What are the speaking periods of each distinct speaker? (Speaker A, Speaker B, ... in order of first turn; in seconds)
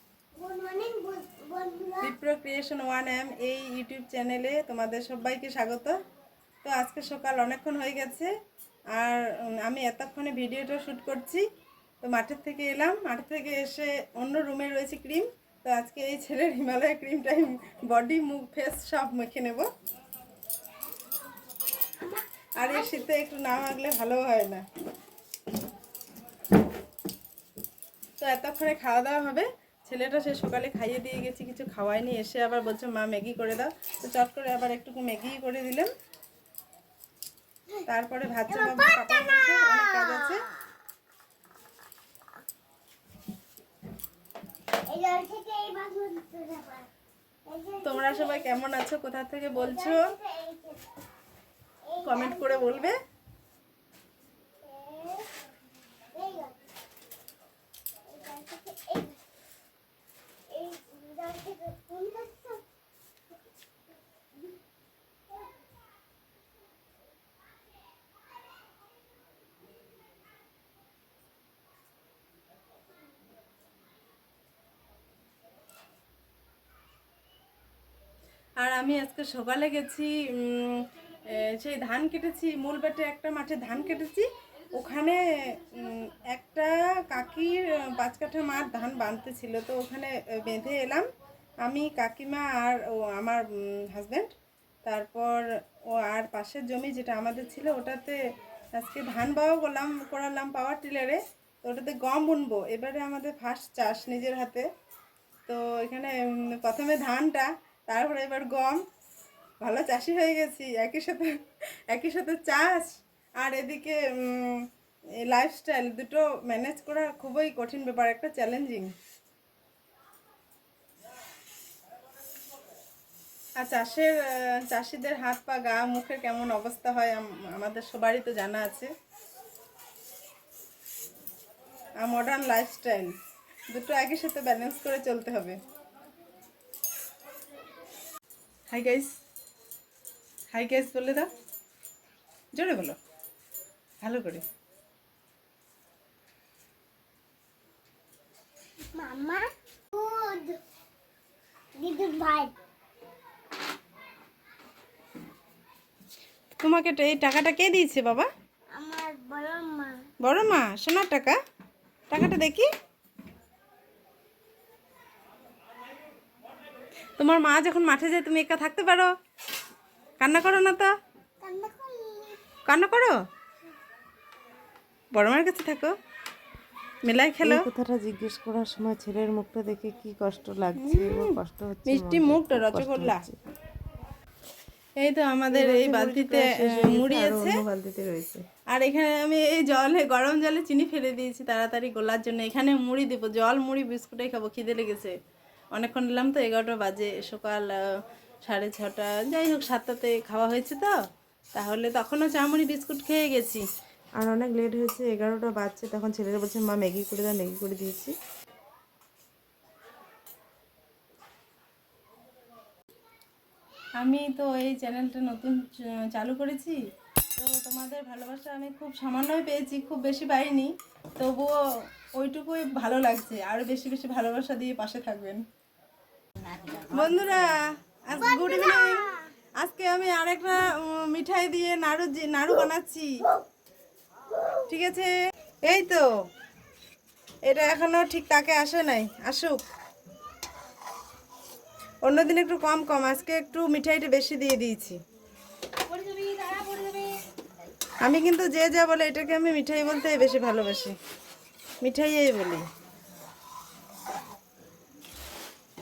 Speaker A: 0.4-2.1, 22.0-23.0, 38.5-40.4, 44.9-46.9, 47.5-48.5, 49.5-50.8, 51.9-52.9, 54.6-55.3, 56.1-56.5, 58.1-59.2, 60.5-62.6, 148.9-150.6, 151.8-152.5, 158.7-160.0, 171.4-172.4, 228.2-229.3
Speaker B: 2.0-6.0, 6.6-8.3, 8.9-11.4, 12.0-19.7, 22.6-24.6, 28.2-35.9, 37.9-40.4, 47.8-50.1, 52.0-53.0, 78.6-91.1, 91.6-94.3, 94.8-98.2, 98.8-104.7, 105.5-108.8, 109.6-114.7, 115.2-118.9, 123.6-128.9, 132.0-133.2, 133.7-135.6, 138.7-139.1, 140.5-141.3, 142.6-143.0, 144.0-144.4, 156.5-158.3, 160.2-161.4, 162.1-162.7, 167.2-169.1, 170.2-170.9, 172.7-173.2, 175.1-175.9, 177.1-177.7, 180.8-183.2, 185.0-187.6, 188.7-195.2, 195.8-197.8, 198.4-201.0, 201.6-203.6, 214.0-216.8, 217.4-221.6, 222.1-225.4, 226.7-229.0, 229.6-233.1, 234.7-236.1, 237.4-239.6, 242.0-245.0, 248.0-251.0, 251.8-252.7
Speaker C: 177.4-183.4, 185.5-188.4, 204.2-208.2